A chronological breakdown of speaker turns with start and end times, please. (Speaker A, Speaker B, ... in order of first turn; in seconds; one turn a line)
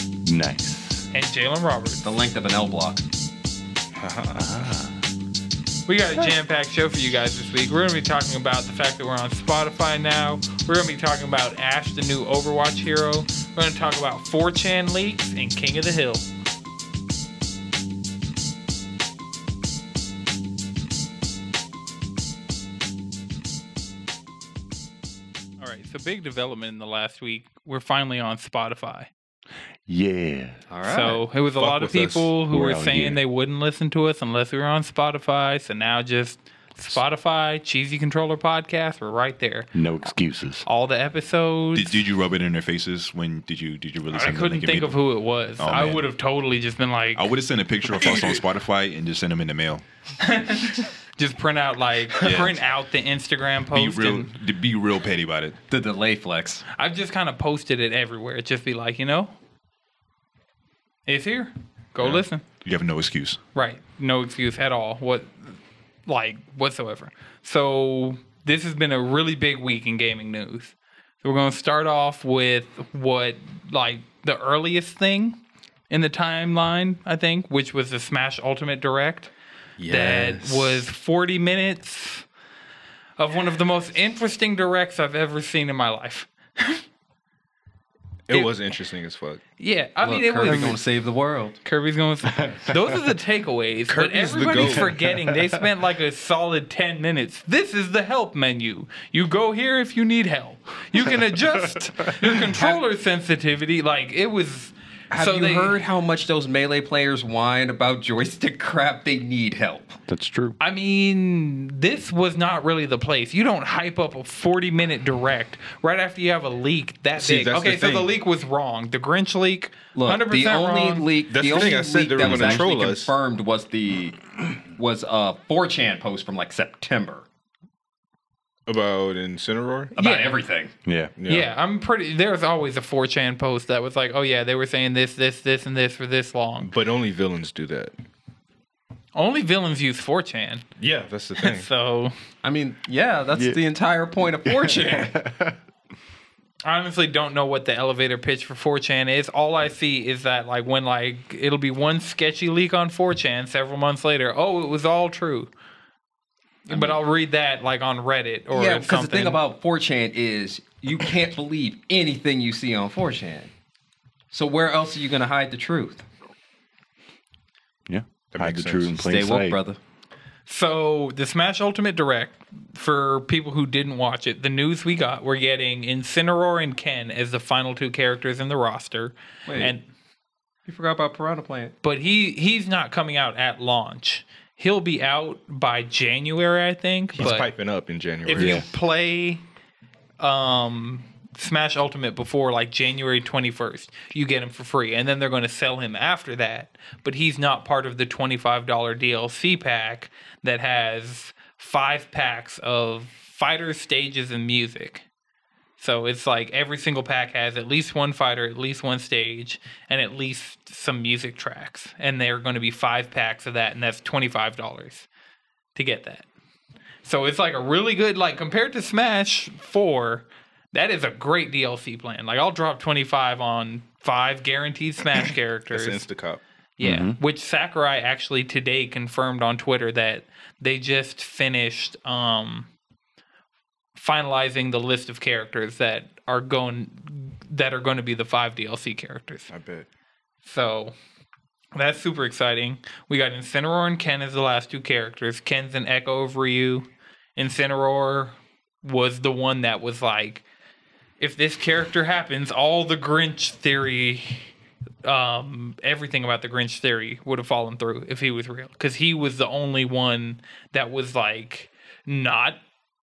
Speaker A: 0.2-1.1
Speaker B: 1.1-2.1
Speaker C: 2.0-3.0
Speaker D: 4.0-4.5
Speaker A: 4.3-5.0
Speaker B: 5.9-16.3
Speaker B: 25.6-29.1
Speaker A: 29.9-30.6
Speaker C: 30.7-31.2
Speaker B: 30.8-39.7
Speaker D: 31.6-32.3
Speaker A: 32.5-33.2
Speaker A: 39.7-40.6
Speaker B: 40.6-42.1
Speaker E: 41.7-45.0
Speaker B: 44.1-47.3
Speaker E: 45.6-46.1
Speaker E: 47.1-49.8
Speaker B: 47.9-48.4
Speaker B: 50.2-54.3
Speaker E: 52.2-52.5
Speaker E: 53.7-55.6
Speaker C: 55.7-56.6
Speaker B: 56.8-59.3
Speaker B: 61.0-62.4
Speaker E: 62.0-63.4
Speaker B: 63.5-75.4
Speaker B: 75.9-79.3
Speaker C: 79.8-80.8
Speaker B: 79.8-82.2
Speaker B: 83.2-86.8
Speaker D: 88.3-89.4
Speaker B: 89.6-90.7
Speaker C: 90.0-91.6
Speaker A: 90.4-90.8
Speaker B: 91.6-105.8
Speaker A: 92.4-92.7
Speaker D: 93.9-95.0
Speaker A: 94.6-95.3
Speaker C: 105.1-110.0
Speaker A: 110.1-110.6
Speaker B: 110.6-121.1
Speaker D: 117.2-118.1
Speaker C: 119.9-127.2
Speaker D: 121.3-123.1
Speaker A: 122.2-122.6
Speaker D: 128.7-129.9
Speaker C: 129.9-130.7
Speaker B: 130.0-130.4
Speaker A: 130.8-131.1
Speaker D: 131.2-131.5
Speaker B: 131.3-136.7
Speaker D: 136.6-137.9
Speaker B: 139.1-140.6
Speaker D: 140.8-141.7
Speaker B: 141.4-142.1
Speaker C: 142.4-145.1
Speaker A: 144.4-145.6
Speaker B: 146.6-155.5
Speaker C: 156.7-157.0
Speaker B: 156.7-159.4
Speaker C: 158.5-163.5
Speaker C: 164.3-166.0
Speaker A: 167.9-169.6
Speaker D: 168.3-169.0
Speaker C: 169.0-169.8
Speaker B: 170.5-179.8
Speaker C: 179.4-179.7
Speaker C: 180.7-181.7
Speaker B: 181.8-187.5
Speaker D: 187.1-188.7
Speaker B: 188.2-189.4
Speaker A: 188.4-188.7
Speaker B: 190.2-205.0
Speaker B: 205.8-215.1
Speaker B: 215.7-216.2
Speaker B: 217.0-226.0
Speaker D: 225.7-226.4
Speaker B: 226.8-232.7
Speaker A: 226.8-227.2
Speaker B: 233.9-239.5
Speaker D: 239.5-239.9
Speaker B: 240.4-240.9
Speaker B: 241.7-250.4
Speaker B: 251.2-254.5
Speaker B: 255.0-262.6